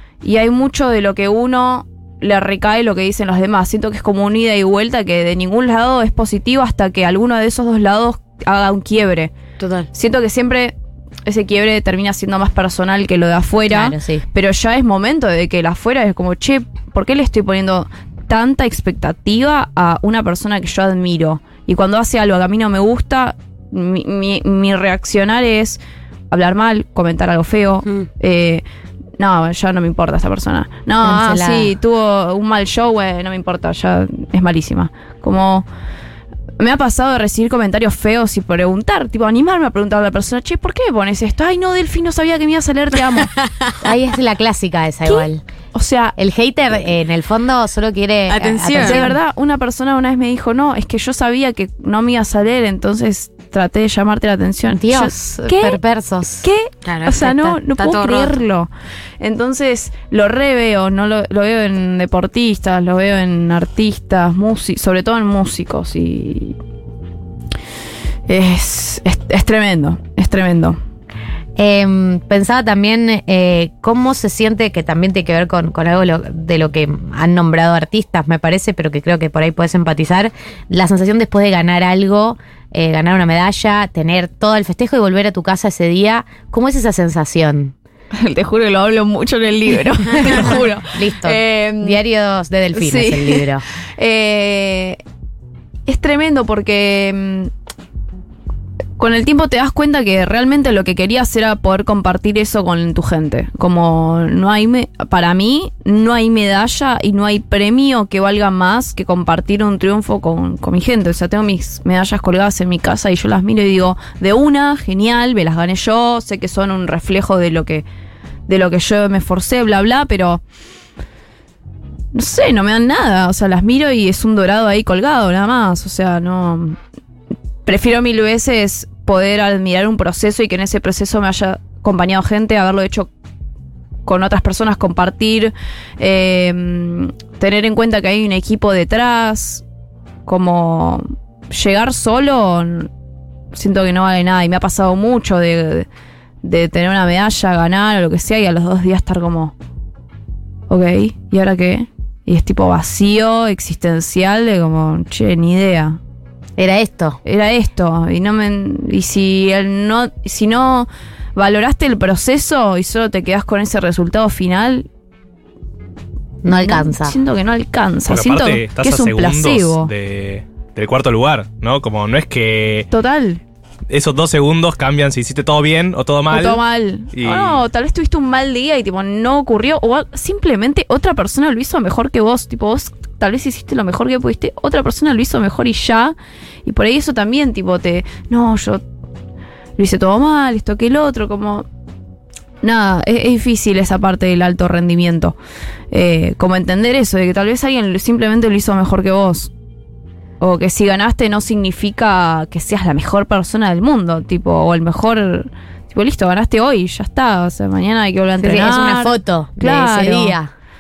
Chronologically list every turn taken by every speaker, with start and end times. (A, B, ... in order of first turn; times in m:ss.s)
0:00.2-0:09.3 A
0:09.6-0:09.9 B
0:09.9-0:10.7 A
0:11.3-0:25.8 A
0:13.7-0:14.2 C
0:26.3-0:28.6 A
0:29.2-0:35.7 A
0:31.0-0:31.7 C
0:36.6-0:43.3 A
0:43.8-0:45.4 C
0:45.1-0:46.2 A
0:46.2-0:49.2 C
0:48.3-0:49.1 B
0:48.8-0:55.8 A
0:54.8-0:56.4 C
0:56.4-1:06.6 A
0:56.8-0:58.3 B
1:08.3-1:10.8 A
1:11.6-1:27.8 C
1:28.1-1:32.0 A
1:30.2-1:33.6 C
1:32.7-1:35.0 A
1:35.9-1:37.5 A
1:39.0-1:57.8 A
1:58.5-2:00.4 A
2:02.1-2:06.8 A
2:07.7-2:13.1 A
2:14.0-2:19.6 A
2:20.3-2:22.9 A
2:23.5-2:25.9 A
2:26.4-2:29.5 A
2:30.7-2:36.0 A
2:36.6-2:37.2 C
2:37.2-2:44.9 A
2:46.4-2:47.2 C
2:46.5-2:49.9 A
2:48.1-2:52.9 D
2:52.9-2:53.4 A
2:53.9-2:56.6 D
2:56.3-3:08.8 A
2:57.1-2:57.6 D
3:09.8-3:11.7 A
3:12.6-3:15.4 A
3:15.9-3:19.5 A
3:20.4-3:30.4 A
3:28.4-3:30.5 C